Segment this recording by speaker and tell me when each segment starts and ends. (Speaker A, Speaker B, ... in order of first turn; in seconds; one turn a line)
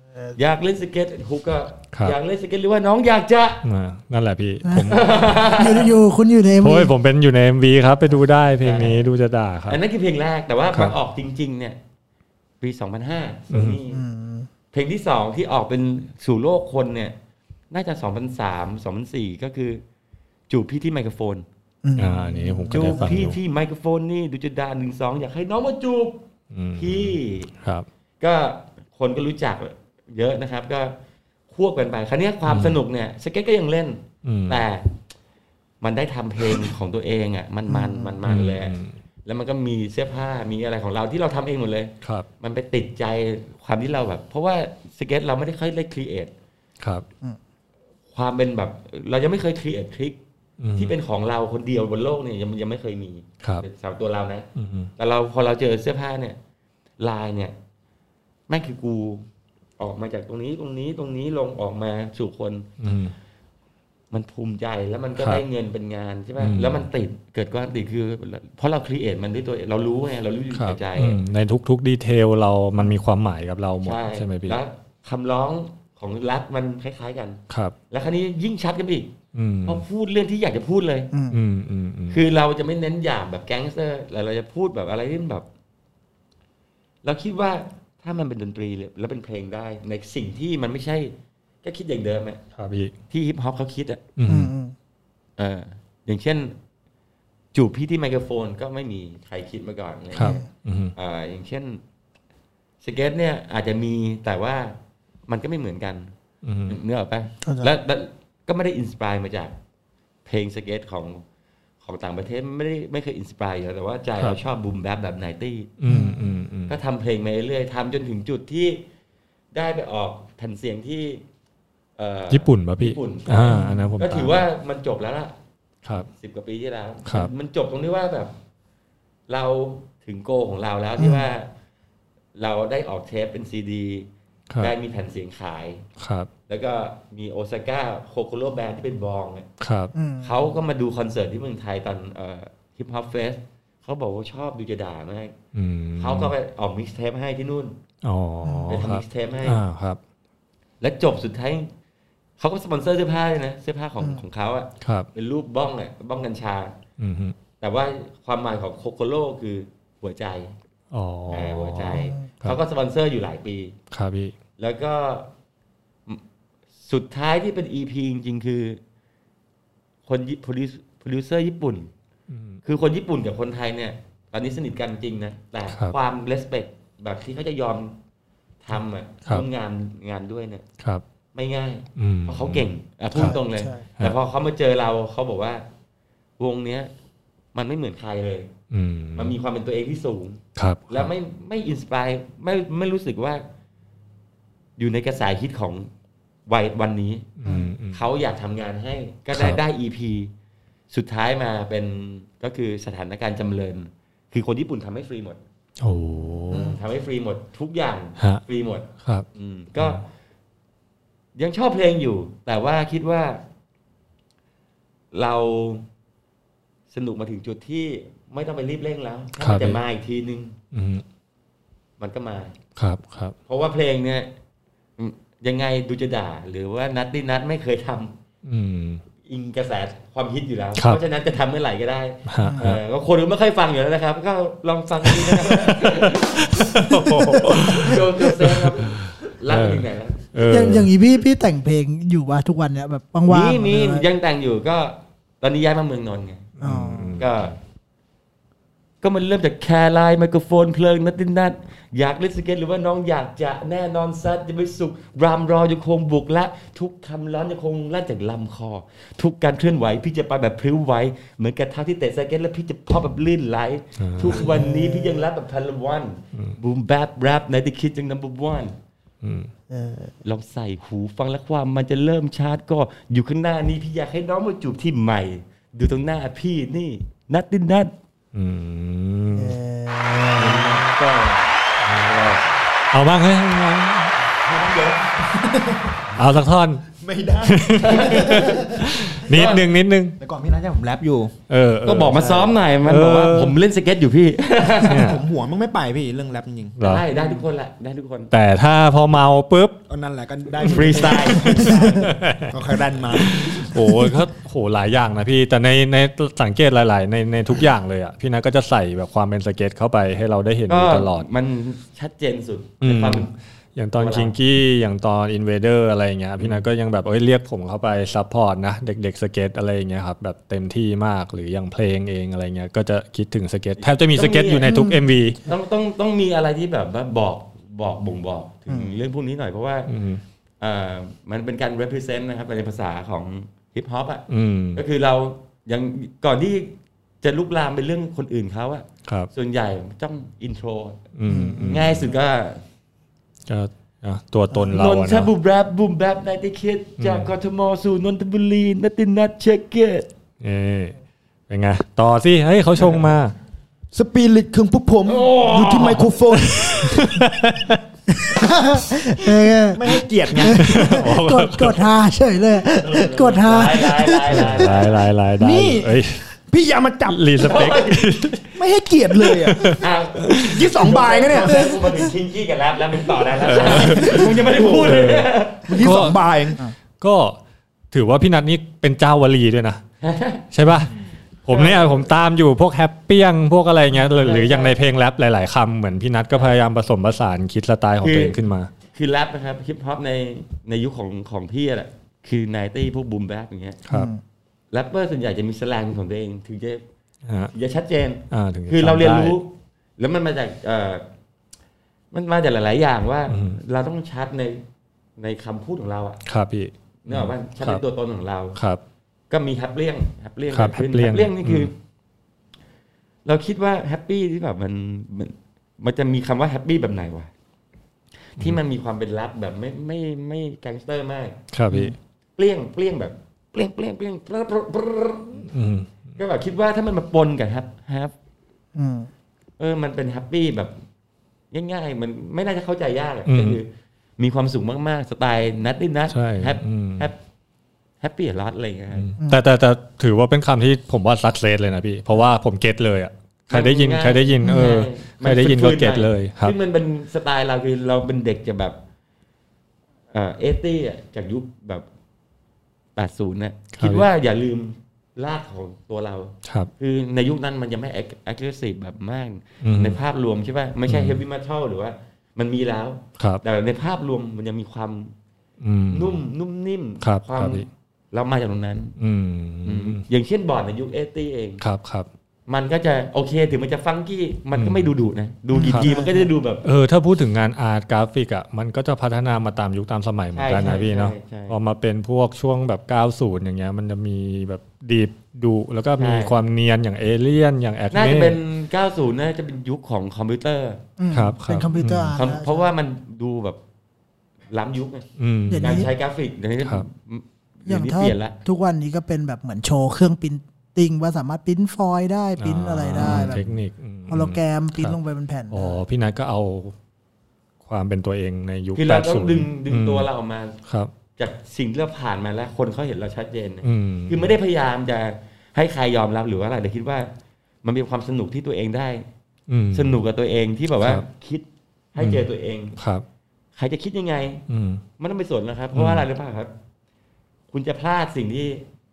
Speaker A: 0.3-3.6
Speaker B: 3.6-5.3
Speaker C: 4.7-6.9
Speaker A: 4.9-5.9
Speaker B: 6.6-9.8
Speaker A: 8.6-9.0
Speaker A: 9.7-11.8
Speaker A: 12.6-14.0
Speaker B: 13.5-13.8
Speaker C: 13.9-14.5
Speaker A: 14.7-17.1
Speaker A: 17.7-19.8
Speaker A: 20.5-21.4
Speaker C: 21.8-23.1
Speaker B: 21.9-23.4
Speaker A: 22.7-26.2
Speaker B: 26.5-27.9
Speaker A: 26.8-27.5
Speaker A: 28.2-30.9
Speaker A: 31.5-34.9
Speaker B: 32.5-32.8
Speaker B: 34.2-34.6
Speaker A: 35.8-46.3
Speaker C: 37.7-38.2
Speaker B: 38.2-38.9
Speaker A: 48.1-50.2
Speaker B: 50.6-50.9
Speaker A: 50.8-56.4
Speaker B: 54.5-54.9
Speaker A: 57.0-57.5
Speaker A: 58.5-59.3
Speaker A: 59.8-62.7
Speaker B: 62.8-63.1
Speaker A: 64.1-71.2
Speaker B: 66.4-66.8
Speaker B: 70.5-74.6
Speaker A: 73.8-79.1
Speaker B: 77.5-77.7
Speaker B: 79.3-79.8
Speaker A: 79.6-81.1
Speaker C: 81.1-81.4
Speaker B: 81.3-82.2
Speaker A: 82.1-85.5
Speaker A: 87.0-92.4
Speaker B: 92.5-92.9
Speaker A: 93.1-94.0
Speaker B: 94.2-94.5
Speaker C: 94.3-94.7
Speaker A: 95.4-96.6
Speaker A: 97.5-100.4
Speaker B: 100.1-100.9
Speaker C: 100.2-100.5
Speaker A: 100.9-101.8
Speaker A: 102.8-104.8
Speaker A: 105.3-106.1
Speaker B: 106.4-106.8
Speaker A: 106.7-109.5
Speaker C: 107.4-107.7
Speaker A: 110.2-111.2
Speaker A: 111.8-115.7
Speaker B: 115.8-116.7
Speaker C: 115.9-116.4
Speaker A: 116.7-118.8
Speaker A: 119.5-121.2
Speaker A: 122.0-125.3
Speaker B: 122.3-124.3
Speaker C: 123.4-124.0
Speaker A: 126.1-128.3
Speaker B: 127.0-127.3
Speaker A: 129.3-131.5
Speaker C: 131.0-131.2
Speaker A: 132.3-135.9
Speaker B: 136.0-136.3
Speaker A: 136.5-139.5
Speaker B: 139.6-139.9
Speaker C: 139.9-140.3
Speaker A: 140.2-145.4
Speaker B: 145.5-146.3
Speaker A: 146.0-147.8
Speaker B: 148.0-150.0
Speaker C: 148.4-148.8
Speaker A: 148.7-149.6
Speaker A: 150.8-151.7
Speaker A: 152.4-156.8
Speaker B: 154.8-155.1
Speaker B: 157.0-157.3
Speaker A: 157.6-160.5
Speaker B: 160.9-162.6
Speaker A: 161.3-163.8
Speaker C: 161.9-162.3
Speaker B: 163.9-164.3
Speaker A: 164.6-165.3
Speaker A: 166.8-168.8
Speaker A: 170.1-171.9
Speaker B: 172.3-172.6
Speaker A: 172.6-177.9
Speaker A: 178.6-180.7
Speaker A: 181.3-185.6
Speaker B: 182.0-183.4
Speaker C: 183.1-183.8
Speaker A: 186.4-186.9
Speaker A: 187.5-188.5
Speaker B: 188.7-189.3
Speaker A: 189.1-193.4
Speaker B: 190.6-191.1
Speaker A: 194.8-195.9
Speaker A: 196.5-197.3
Speaker B: 197.4-198.0
Speaker C: 197.4-197.7
Speaker A: 197.9-200.3
Speaker B: 199.3-199.6
Speaker A: 200.9-205.4
Speaker B: 205.8-206.8
Speaker C: 206.5-206.8
Speaker A: 206.5-210.0
Speaker B: 209.0-209.2
Speaker A: 211.3-213.4
Speaker A: 215.1-215.9
Speaker A: 216.9-220.6
Speaker B: 219.4-219.8
Speaker B: 220.7-221.0
Speaker A: 222.0-222.6
Speaker B: 222.8-223.3
Speaker A: 223.5-224.3
Speaker A: 225.0-228.2
Speaker B: 228.4-229.0
Speaker A: 229.2-240.4
Speaker B: 230.8-231.0
Speaker B: 232.3-232.8
Speaker C: 232.4-232.7
Speaker B: 235.1-240.9
Speaker C: 240.5-244.1
Speaker A: 243.3-246.5
Speaker C: 246.6-247.2
Speaker B: 246.6-247.3
Speaker A: 247.2-247.6
Speaker A: 249.0-268.8
Speaker B: 264.0-264.5
Speaker C: 264.2-265.2
Speaker B: 269.2-269.5
Speaker C: 269.7-270.1
Speaker A: 270.2-277.9
Speaker B: 278.3-279.6
Speaker C: 279.3-280.8
Speaker A: 280.4-282.4
Speaker B: 282.9-284.1
Speaker D: 284.3-286.2
Speaker B: 286.1-286.9
Speaker D: 286.9-288.9
Speaker B: 287.4-290.2
Speaker A: 287.8-288.6
Speaker A: 289.2-289.6
Speaker D: 290.2-291.3
Speaker B: 291.5-293.6
Speaker A: 291.8-295.2
Speaker B: 294.8-295.2
Speaker D: 294.9-297.4
Speaker B: 296.8-297.1
Speaker A: 296.8-298.3
Speaker B: 298.3-299.8
Speaker D: 299.9-303.8
Speaker A: 300.6-302.1
Speaker B: 300.6-302.5
Speaker B: 303.1-311.3
Speaker A: 310.7-313.3
Speaker B: 312.8-325.4
Speaker A: 314.0-314.3
Speaker A: 316.4-316.6
Speaker A: 323.8-324.8
Speaker C: 324.6-325.0
Speaker A: 325.4-329.9
Speaker C: 328.7-328.9
Speaker B: 329.9-330.2
Speaker A: 330.6-341.0
Speaker B: 334.3-334.8
Speaker B: 339.0-339.3
Speaker B: 341.1-342.1
Speaker C: 341.3-341.9
Speaker A: 341.6-342.6
Speaker B: 343.5-345.3
Speaker A: 344.7-350.1
Speaker B: 347.0-347.3
Speaker B: 350.4-350.9
Speaker B: 351.5-353.3
Speaker D: 353.9-357.2
Speaker A: 355.0-356.2
Speaker B: 356.4-357.8
Speaker C: 358.2-364.7
Speaker D: 359.7-361.1
Speaker B: 360.4-361.8
Speaker A: 362.8-365.0
Speaker B: 364.3-366.2
Speaker D: 365.4-367.3
Speaker B: 367.1-368.4
Speaker A: 367.4-368.3
Speaker D: 368.5-371.9
Speaker B: 369.3-370.5
Speaker A: 369.6-375.8
Speaker B: 373.5-376.2
Speaker D: 373.6-375.0
Speaker D: 375.7-376.6
Speaker B: 377.0-377.4
Speaker B: 377.9-379.8
Speaker A: 380.0-380.5
Speaker B: 380.5-380.9
Speaker B: 381.4-388.7
Speaker A: 381.5-382.1
Speaker A: 384.2-384.8
Speaker A: 388.0-388.4
Speaker A: 388.9-393.8
Speaker C: 393.9-394.2
Speaker A: 394.7-396.8
Speaker B: 397.2-397.5
Speaker A: 397.5-401.0
Speaker B: 398.3-399.3
Speaker A: 402.1-404.6
Speaker B: 403.3-403.6
Speaker A: 405.2-406.2
Speaker B: 406.2-407.8
Speaker A: 407.0-408.6
Speaker B: 408.6-408.8
Speaker A: 409.3-411.7
Speaker B: 410.5-411.7
Speaker A: 413.2-417.3
Speaker A: 418.3-421.4
Speaker B: 421.5-421.9
Speaker C: 421.7-421.9
Speaker A: 422.4-425.5
Speaker B: 425.5-425.9
Speaker A: 426.2-428.1
Speaker C: 428.7-429.1
Speaker A: 429.6-430.8
Speaker A: 431.5-437.2
Speaker B: 433.3-433.6
Speaker B: 436.1-437.1
Speaker A: 438.0-439.1
Speaker B: 438.9-446.5
Speaker A: 443.5-448.8
Speaker A: 450.1-451.9
Speaker A: 452.9-465.1
Speaker B: 453.8-454.1
Speaker B: 456.4-456.7
Speaker B: 459.6-460.0
Speaker B: 460.9-461.2
Speaker B: 465.6-466.2
Speaker A: 465.9-469.0
Speaker B: 467.0-467.6
Speaker B: 469.0-470.0
Speaker A: 469.6-471.6
Speaker B: 471.6-472.1
Speaker A: 472.5-476.6
Speaker B: 474.5-474.9
Speaker C: 475.5-476.3
Speaker B: 476.6-488.4
Speaker A: 480.3-481.6
Speaker A: 486.0-486.4
Speaker A: 487.9-490.8
Speaker C: 491.0-492.7
Speaker B: 491.1-492.2
Speaker A: 492.1-493.6
Speaker A: 494.5-495.1
Speaker B: 495.2-495.9
Speaker C: 495.5-495.9
Speaker A: 495.6-498.4
Speaker C: 497.7-503.6
Speaker B: 502.4-505.0
Speaker A: 503.0-503.4
Speaker C: 504.1-505.8
Speaker B: 505.5-506.7
Speaker B: 507.6-510.1
Speaker A: 508.7-510.6
Speaker B: 510.6-510.9
Speaker A: 511.1-517.1
Speaker B: 513.6-514.2
Speaker A: 517.6-519.1
Speaker B: 519.5-520.0
Speaker A: 519.7-522.8
Speaker B: 522.0-522.2
Speaker B: 522.8-523.0
Speaker A: 523.5-524.5
Speaker B: 524.5-524.8
Speaker A: 525.0-526.5
Speaker B: 525.7-526.0
Speaker A: 527.5-528.6